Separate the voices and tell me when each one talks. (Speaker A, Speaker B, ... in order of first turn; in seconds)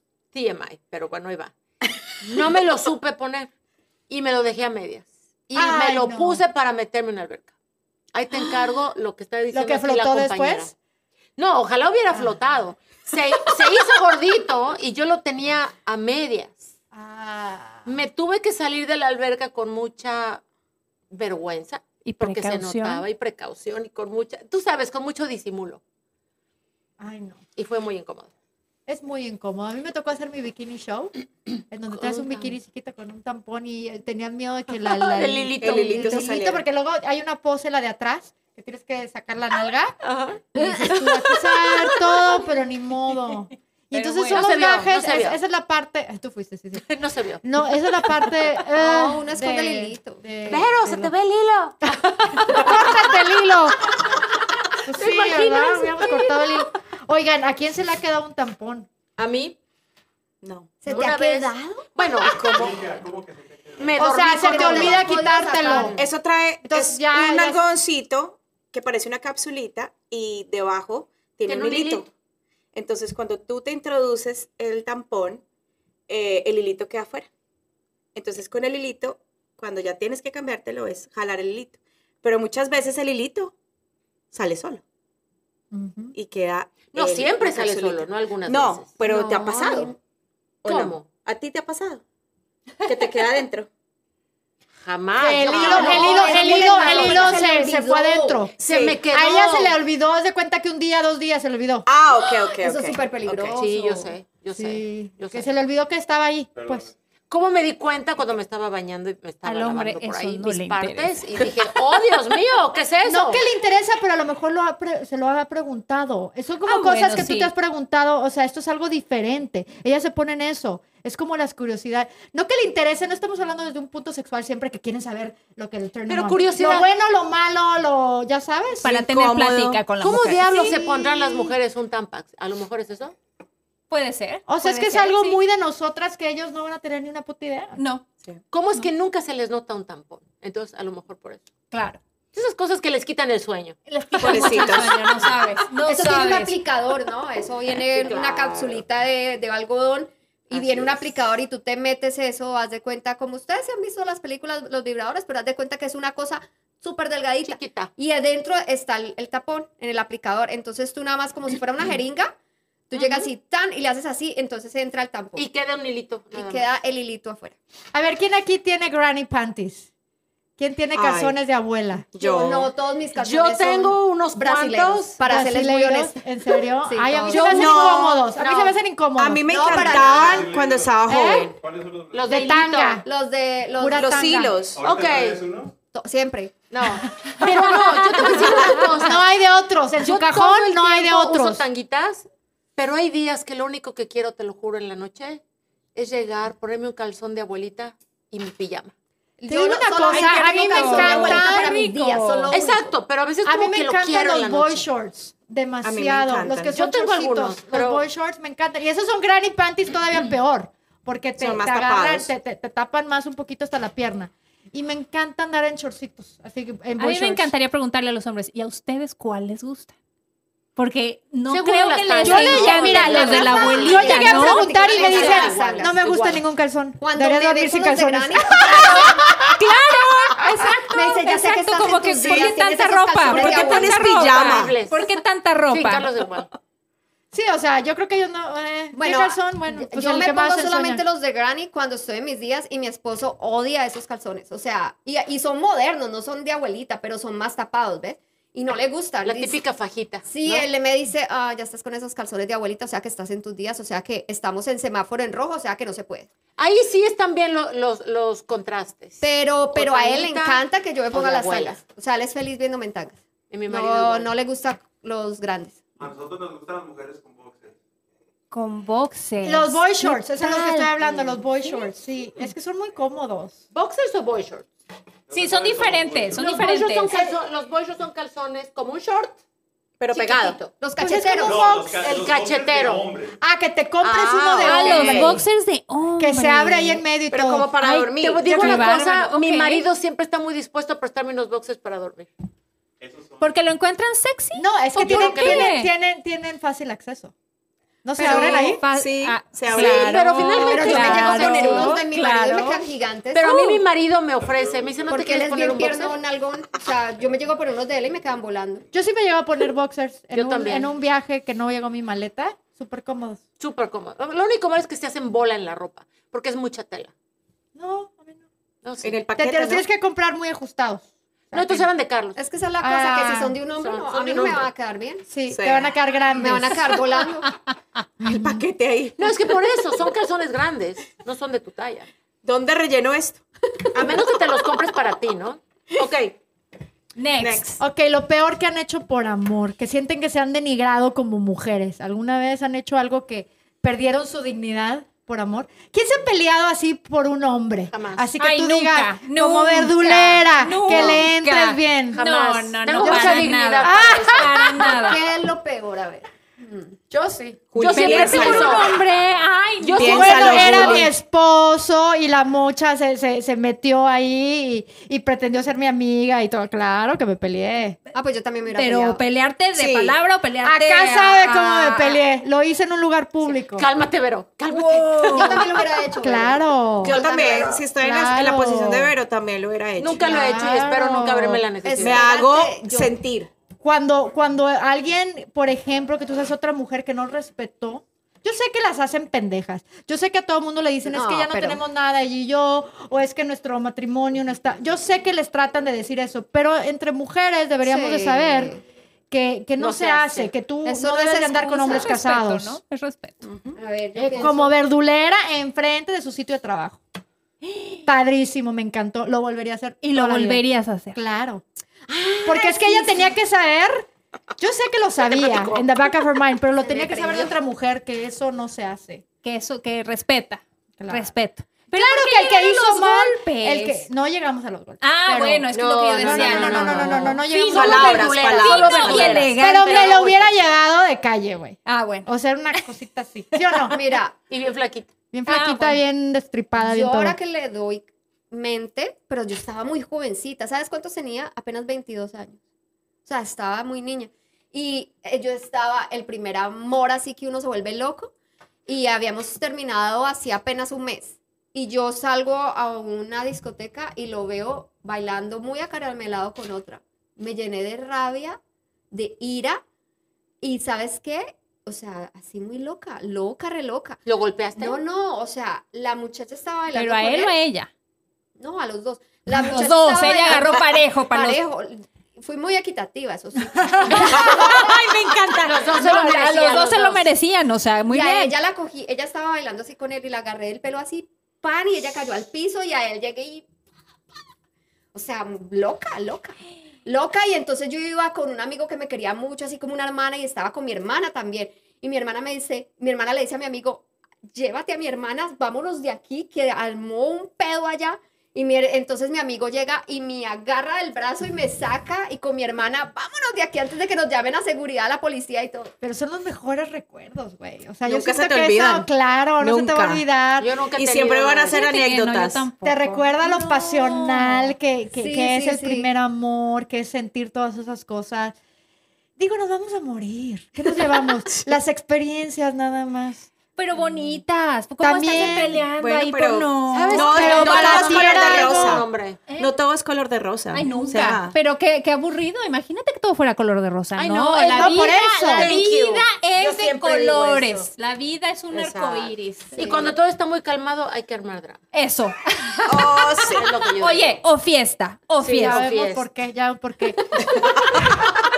Speaker A: 0.3-1.5, 2.2-3.5, 4.1-7.5, 8.1-10.7, 11.4-16.7, 17.9-20.4, 21.1-25.8, 27.6-28.3, 31.9-32.5, 34.8-36.4, 40.0-42.0, 44.3-45.4, 46.9-47.4, 50.5-53.0, 54.9-56.6, 59.2-59.6, 60.9-62.7, 63.8-65.0, 65.6-66.1, 71.5-72.1, 86.9-88.9, 90.7-91.1, 94.8-97.3, 98.6-99.8, 103.6-105.5, 107.3-113.5, 126.1-126.9, 130.0-133.1, 138.5-141.5, 142.3-143.8, 157.4-157.9, 162.9-163.3, 165.4-166.7, 173.2-175.2, 177.3-178.8, 182.1-183.0, 184.8-185.4, 186.7-189.2, 190.0-195.4, 195.9-198.9, 202.5-204.9, 206.7-208.1, 221.5-226.4, 234.3-235.2, 235.7-236.5, 249.2-250.7, 256.6-259.2, 259.7-261.8, 263.5-264.3, 271.0-271.3, 273.7-274.7, 276.3-279.4, 280.1-280.7, 282.0-283.1, 284.0-284.9, 288.1-292.3, 294.9-295.7, 299.7-302.0, 303.3-306.2, 310.3-310.9, 313.6-317.1, 318.8-319.2, 321.5-322.4, 323.8-324.7, 329.2-332.1, 333.9-336.4, 347.9-348.3, 352.1-355.0, 357.1-359.0, 359.8-361.1, 373.7-375.7, 380.0-382.3, 399.8-400.5, 425.9-430.5, 434.5-435.1, 464.3-465.0, 475.6-477.3, 510.6-511.8, 526.9-529.4, 534.2-537.9, 538.7-541.8, 543.5-544.4, 545.4-546.2
Speaker B: 5.5-6.4, 9.5-10.7, 16.9-17.9, 27.0-27.4, 28.9-31.1, 31.7-40.0, 40.5-46.9, 47.4-51.1, 51.9-53.9, 54.9-58.9, 64.0-66.0, 66.7-67.6, 85.7-86.2, 95.2-98.5, 99.1-101.9, 104.6-106.9, 113.1-128.9, 130.5-131.5, 134.5-137.8, 167.9-169.9, 170.6-172.1, 175.2-180.2, 181.1-181.5, 182.3-183.1, 183.8-184.6, 187.3-191.6, 199.5-201.8, 203.4-217.5, 222.2-229.2, 237.3-241.0, 269.4-273.6, 281.0-282.2, 283.4-285.4, 286.2-287.7, 294.6-297.3, 298.0-298.8, 300.3-302.0, 308.9-313.4, 317.8-318.4, 319.4-321.9, 322.8-323.6, 325.3-326.9, 328.2-328.6, 337.8-352.2, 352.9-354.5, 360.1-368.0, 370.6-373.9, 376.2-377.2, 377.9-379.1, 380.2-381.6, 383.8-398.7, 399.3-402.8, 404.2-407.0, 408.1-411.6, 412.4-419.2, 421.0-421.3, 421.9-428.3, 429.6-434.0, 435.3-437.4, 506.0-510.7, 512.8-518.6, 519.4-523.5, 525.0-525.9, 527.1-529.0, 534.6-535.7, 545.6-547.5
Speaker C: 22.0-23.0, 43.9-44.5, 109.5-111.2, 116.7-117.5, 128.8-130.8, 133.9-135.4, 137.8-138.1, 141.7-142.0, 143.9-146.6, 200.1-202.6, 217.0-219.9, 220.8-225.5, 228.7-236.1, 268.5-270.9, 271.6-271.9, 275.3-277.1, 284.6-287.0, 287.8-289.9, 293.4-295.9, 298.2-302.8, 303.5-303.8, 327.4-327.8, 337.2-337.8, 348.4-355.2, 357.8-361.0, 368.7-372.2, 374.7-375.7, 401.8-403.4, 407.6-408.0, 410.0-411.2, 419.4-424.1, 425.0-430.2, 431.9-432.3, 435.5-436.0, 466.9-467.9, 469.5-471.6, 473.9-478.5, 511.7-514.8, 523.8-528.1, 529.5-529.7, 530.7-539.9, 541.9-545.9
Speaker D: 35.6-36.7, 60.4-60.7, 62.2-62.8, 66.0-72.1, 72.7-75.4, 76.1-77.3, 78.2-83.5, 84.3-84.8, 86.2-89.9, 90.6-92.0, 92.8-93.7, 95.5-96.1, 98.7-98.9, 101.9-103.6, 128.8-129.8, 144.2-145.0, 147.9-148.8, 150.5-151.0, 170.9-171.4, 172.1-172.7, 177.5-178.3, 179.2-181.6, 183.9-184.8, 205.8-206.7, 211.4-212.3, 232.2-232.6, 233.2-234.8, 280.0-280.6, 284.4-285.4, 287.3-289.1, 298.2-300.5, 319.0-319.9, 325.5-326.0, 328.2-329.4, 332.4-333.4, 333.9-334.2, 337.4-337.7, 357.7-358.9, 360.0-361.1, 369.7-370.2, 377.0-380.6, 382.0-383.5, 403.4-403.8, 415.3-415.8, 427.6-429.5, 508.1-510.2, 510.9-512.7, 521.5-521.8, 526.0-531.6, 536.6-537.8, 542.9-543.7
Speaker E: 48.8-50.2, 60.8-61.9, 64.0-66.0, 89.0-90.0, 95.5-98.5, 102.6-104.1, 145.8-162.3, 162.9-165.5, 166.3-167.6, 172.2-177.8, 179.5-180.5, 183.0-184.1, 185.9-186.6, 188.3-189.0, 199.4-202.9, 222.4-226.3, 227.0-229.4, 230.9-234.2, 238.9-249.6, 250.2-256.3, 259.2-265.8, 280.8-281.6, 300.7-303.7, 305.1-308.9, 322.4-325.3, 326.3-327.5, 354.8-357.0, 368.1-369.2, 375.3-377.8, 381.8-383.1, 391.1-391.8, 397.8-398.8, 400.9-402.1, 403.7-404.8, 412.1-413.3, 416.8-417.5, 425.8-427.0, 433.9-434.4, 436.8-442.6, 443.3-448.3, 448.9-458.6, 459.1-459.8, 460.6-464.2, 464.8-467.6, 468.6-475.0, 478.1-483.7, 485.1-505.9, 515.2-516.1, 539.8-540.1
Speaker F: 62.5-65.1, 106.6-106.9, 179.8-182.4, 184.7-185.7, 266.0-267.8, 275.3-276.5, 281.4-283.4, 293.0-293.5, 304.4-305.1